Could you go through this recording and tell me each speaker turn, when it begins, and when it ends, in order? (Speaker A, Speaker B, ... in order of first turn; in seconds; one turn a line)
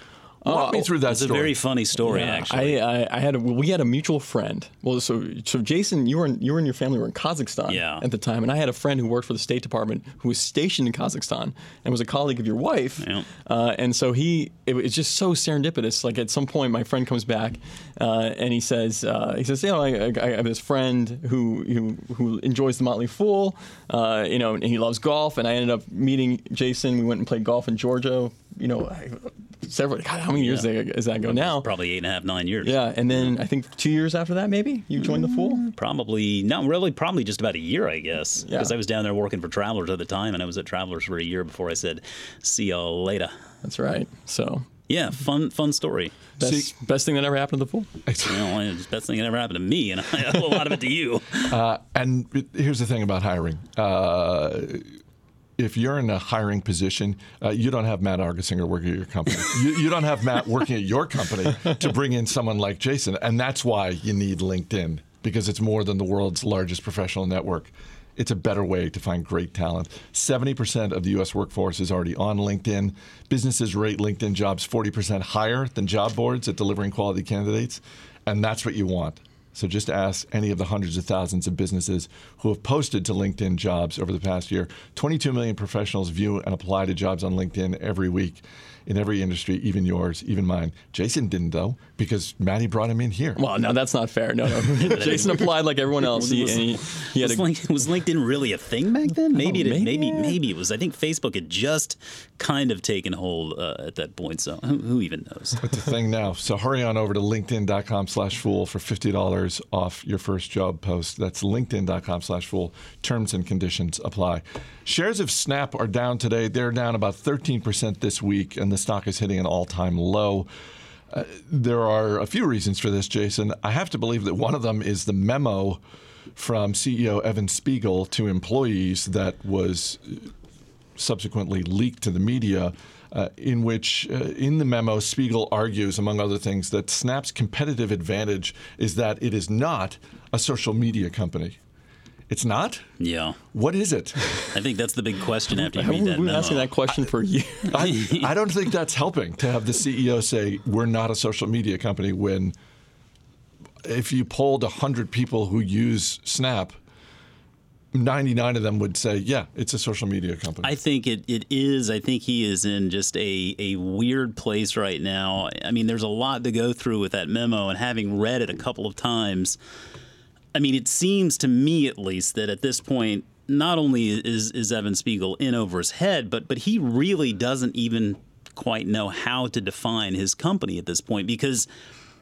Speaker A: 0.4-1.6
Speaker B: 0.5-0.9
Speaker C: 1.1-2.8
Speaker B: 2.0-31.7
Speaker C: 7.7-8.0
Speaker C: 13.0-13.3
Speaker C: 30.4-30.7
Speaker C: 31.2-32.8
Speaker B: 32.6-35.6
Speaker C: 35.6-43.3
Speaker B: 38.5-38.7
Speaker B: 43.6-44.7
Speaker C: 44.9-46.1
Speaker B: 46.4-47.9
Speaker A: 46.4-46.7
Speaker A: 48.1-48.5
Speaker C: 48.2-51.5
Speaker A: 51.5-54.9
Speaker A: 55.6-93.4
Speaker B: 93.4-97.5
Speaker C: 94.7-105.7
Speaker B: 99.4-100.4
Speaker A: 105.6-120.5
Speaker A: 121.1-125.8
Speaker A: 126.4-130.3
Speaker A: 131.0-141.6
Speaker A: 142.3-142.9
Speaker C: 143.0-143.4
Speaker A: 143.5-144.5
Speaker C: 144.5-146.7
Speaker B: 145.5-147.9
Speaker A: 147.7-152.5
Speaker A: 153.8-156.8
Speaker A: 157.9-160.7
Speaker C: 160.6-169.6
Speaker C: 170.5-181.7